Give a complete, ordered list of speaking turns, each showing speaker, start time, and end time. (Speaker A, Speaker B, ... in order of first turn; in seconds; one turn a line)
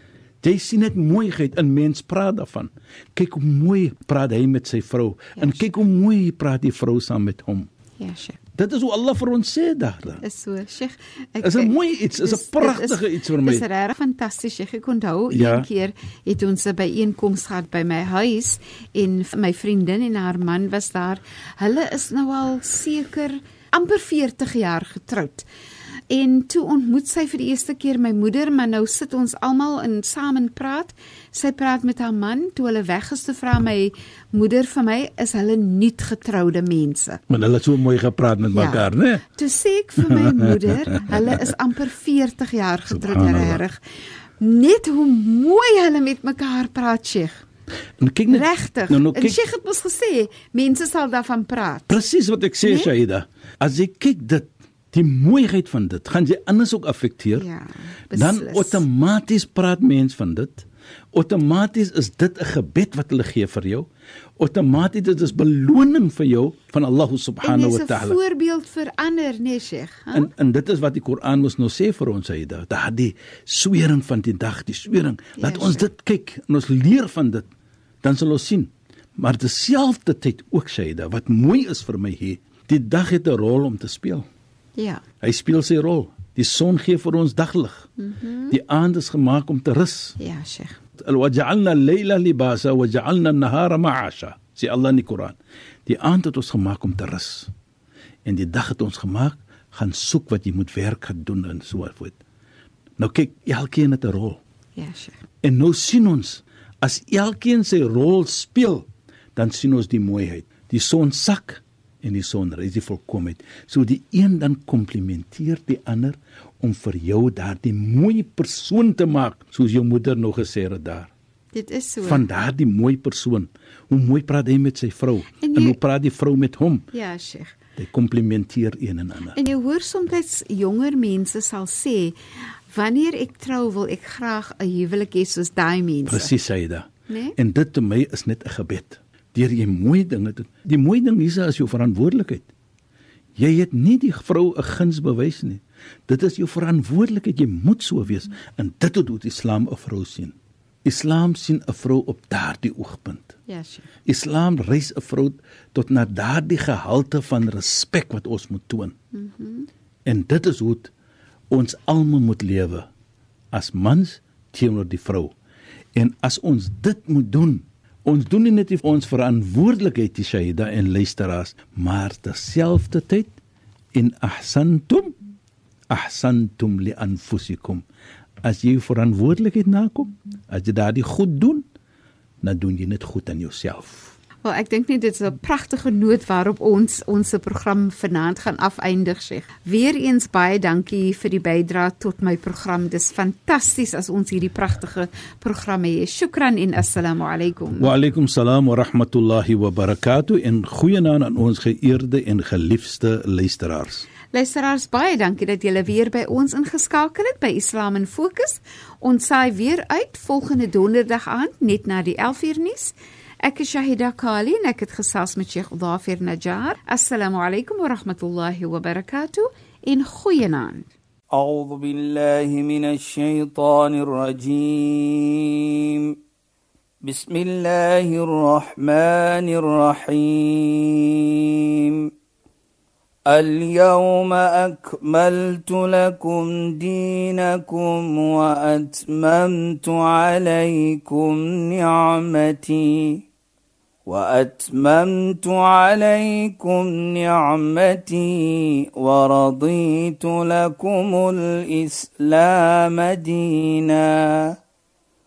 Speaker A: 0.4-7.7
Speaker B: 5.4-5.7
Speaker B: 8.0-8.4
Speaker A: 8.6-10.2
Speaker B: 10.2-25.4
Speaker A: 11.4-13.7
Speaker A: 15.3-15.7
Speaker B: 26.1-37.2
Speaker A: 37.3-39.2
Speaker B: 38.5-43.8
Speaker A: 40.0-41.1
Speaker A: 42.9-43.6
Speaker B: 44.4-47.4
Speaker A: 48.0-49.4
Speaker B: 48.3-52.0
Speaker A: 51.9-57.5
Speaker B: 52.6-52.9
Speaker B: 57.3-58.9
Speaker A: 58.1-63.9
Speaker A: 64.4-68.2
Speaker B: 67.4-70.3
Speaker A: 70.1-77.5
Speaker B: 75.4-75.9
Speaker A: 78.0-84.2
Speaker B: 84.8-85.0
Speaker A: 85.2-87.9
Speaker B: 88.0-88.5
Speaker A: 88.5-90.2
Speaker B: 90.2-90.8
Speaker A: 91.0-97.5
Speaker A: 98.2-102.2
Speaker A: 103.0-104.4
Speaker B: 104.8-105.2
Speaker A: 105.4-121.1
Speaker B: 121.5-122.3
Speaker A: 122.0-126.8
Speaker B: 125.4-125.8
Speaker B: 126.9-127.6
Speaker A: 127.8-129.4
Speaker B: 129.3-132.2
Speaker B: 132.7-136.3
Speaker A: 136.1-142.5
Speaker B: 137.1-137.3
Speaker A: 143.3-153.3
Speaker B: 153.5-153.9
Speaker A: 154.1-158.9
Speaker B: 159.1-159.7
Speaker A: 160.1-160.9
Speaker A: 161.5-162.9
Speaker A: 163.5-165.3
Speaker A: 165.9-173.3
Speaker A: 173.9-175.1
Speaker A: 175.9-177.8
Speaker A: 178.4-181.6
Speaker A: 182.4-184.1
Speaker B: 184.4-197.9
Speaker A: 197.8-204.1
Speaker B: 204.3-220.9
Speaker C: 221.3-226.2
Speaker C: 227.0-232.1
Speaker C: 233.3-243.2
Speaker C: 244.1-254.5